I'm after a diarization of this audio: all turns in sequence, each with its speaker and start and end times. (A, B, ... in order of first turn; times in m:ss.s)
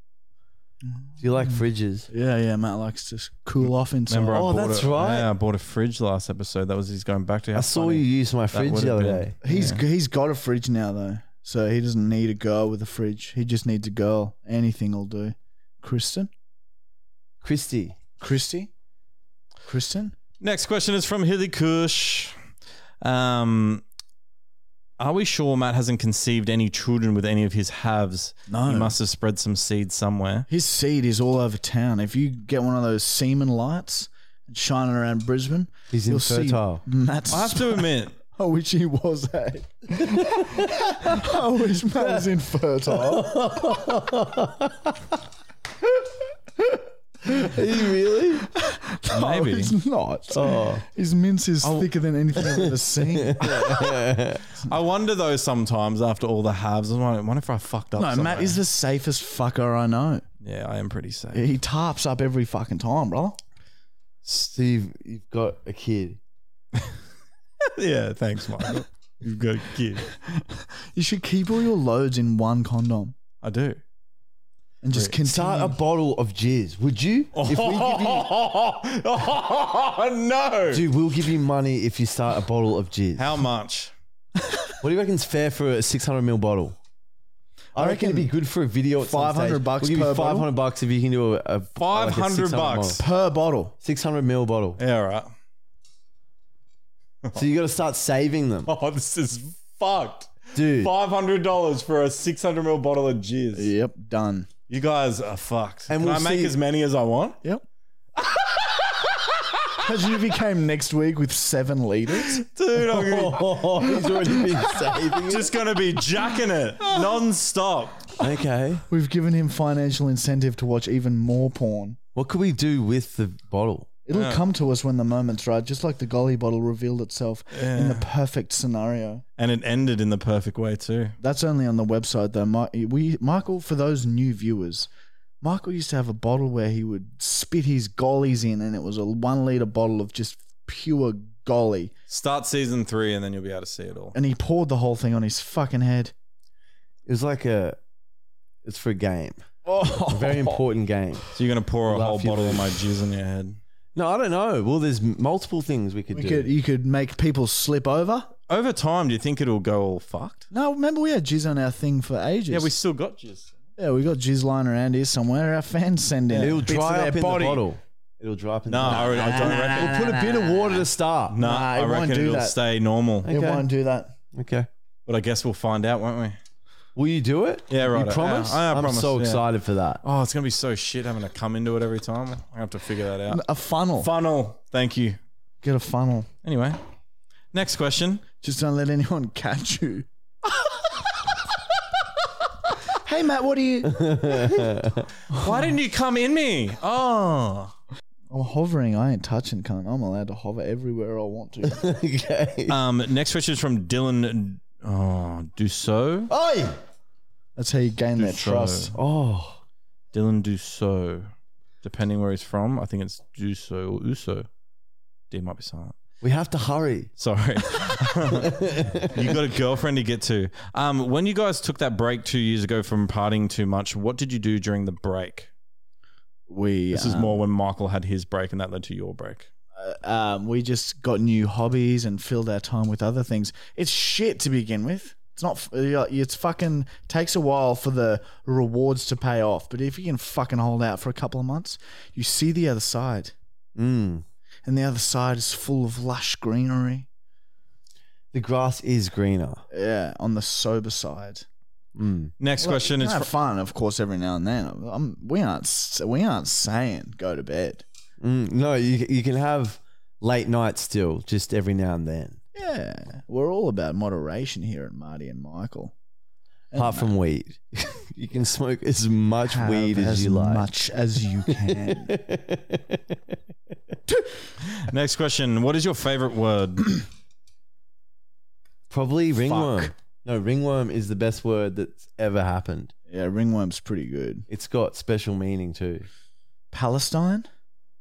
0:00.8-0:04.5 A
0:01.2-0:02.1 B
0:04.1-0:09.8 C
0:04.3-0:05.3 B
0:07.6-0:09.4 B
0:09.4-0:16.3 A
0:17.4-0:18.0 B
0:18.2-0:18.7 A
0:19.6-0:20.2 A
0:20.4-0:22.4 C
0:23.0-0:23.8 C
0:25.0-0:30.5 C
0:28.5-0:29.0 A
0:30.5-0:43.3 A
0:35.9-0:36.8 B
0:37.3-0:38.2 C
0:40.3-0:41.2 B
0:42.0-0:42.3 B
0:42.9-0:45.0 B
0:47.2-0:48.5 B
0:48.5-0:53.9 A
0:49.1-0:49.8 C
0:50.3-0:50.8 B
0:51.6-0:51.9 C
0:52.6-0:54.4 B
0:53.4-0:53.9 C
0:54.6-0:58.6 C
0:58.0-1:00.2 A
1:00.4-1:01.5 C
1:01.3-1:03.4 A
1:04.4-1:06.2 B
1:07.7-1:10.1 C
1:10.0-1:13.2 A
1:13.4-1:13.8 C
1:14.8-1:15.8 A
1:15.3-1:18.3 B
1:17.4-1:20.8 C
1:20.7-1:23.4 B
1:23.2-1:23.9 C
1:24.8-1:26.8 B
1:27.8-1:28.3 A
1:27.8-1:33.0 B
1:29.0-1:30.5 A
1:31.8-1:33.0 C
1:33.0-1:33.8 A
1:33.8-1:34.8 B
1:34.8-1:35.3 C
1:37.4-1:38.7 B
1:38.7-1:43.7 C
1:40.5-1:40.9 B
1:43.5-1:44.5 A
1:44.7-1:47.4 C
1:45.9-1:46.6 B
1:48.2-1:49.8 C
1:49.8-1:52.4 A
1:52.2-1:53.9 C
1:52.8-1:55.5 B
1:54.1-1:54.6 A
1:55.2-1:58.2 C
1:58.2-1:58.8 B
1:58.9-2:02.0 A
2:02.2-2:03.9 B
2:04.1-2:09.2 A
2:04.1-2:04.4 C
2:07.5-2:08.1 C
2:09.4-2:11.2 C
2:11.2-2:14.9 A
2:15.4-2:21.9 A
2:22.1-2:24.2 C
2:24.1-2:26.1 A
2:27.1-2:27.8 B
2:28.6-2:29.4 B
2:29.6-2:30.6 A
2:30.1-2:31.3 B
2:31.3-2:33.6 C
2:31.9-2:32.8 B
2:34.0-2:36.5 B
2:36.1-2:38.3 A
2:38.5-2:40.5 C
2:40.5-2:42.7 A
2:42.5-2:43.5 C
2:43.8-2:47.6 A
2:46.3-2:46.6 C
2:46.4-2:51.4 B
2:48.7-2:50.0 C
2:48.9-2:52.6 A
2:51.3-2:53.3 C
2:53.2-2:53.7 B
2:53.3-2:54.2 A
2:54.3-2:54.7 B
2:55.1-2:56.4 C
2:57.0-3:00.0 B
2:57.7-2:59.4 C
3:00.0-3:03.4 C
3:03.3-3:04.1 A
3:04.0-3:05.2 C
3:05.6-3:06.3 A
3:06.4-3:06.8 C
3:07.5-3:08.3 C
3:08.4-3:11.4 A
3:12.9-3:14.6 A
3:13.9-3:15.1 B
3:15.3-3:15.7 A
3:15.3-3:17.7 C
3:18.3-3:21.9 A
3:21.6-3:22.8 B
3:22.7-3:26.3 C
3:26.3-3:26.8 B
3:27.6-3:28.9 A
3:28.2-3:29.0 C
3:28.9-3:29.6 B
3:30.1-3:31.3 C
3:31.8-3:34.5 C
3:35.3-3:36.0 C
3:36.2-3:37.1 B
3:37.2-3:38.6 C
3:38.3-3:39.3 B
3:39.1-3:45.5 C
3:46.5-3:47.4 A
3:46.9-3:49.5 C
3:49.8-4:03.3 A
4:03.8-4:04.2 B
4:04.6-4:07.1 A
4:08.3-4:09.6 B
4:09.7-4:11.5 A
4:12.0-4:12.3 B
4:12.4-4:13.3 C
4:12.6-4:17.8 A
4:18.2-4:22.4 B
4:22.5-4:25.9 A
4:26.7-4:27.1 A
4:26.8-4:30.7 B
4:29.5-4:32.1 A
4:31.5-4:33.4 B
4:34.7-4:37.0 C
4:38.9-4:42.9 B
4:39.5-4:39.9 C
4:43.1-4:44.5 A
4:44.5-4:46.1 B
4:46.7-4:47.5 A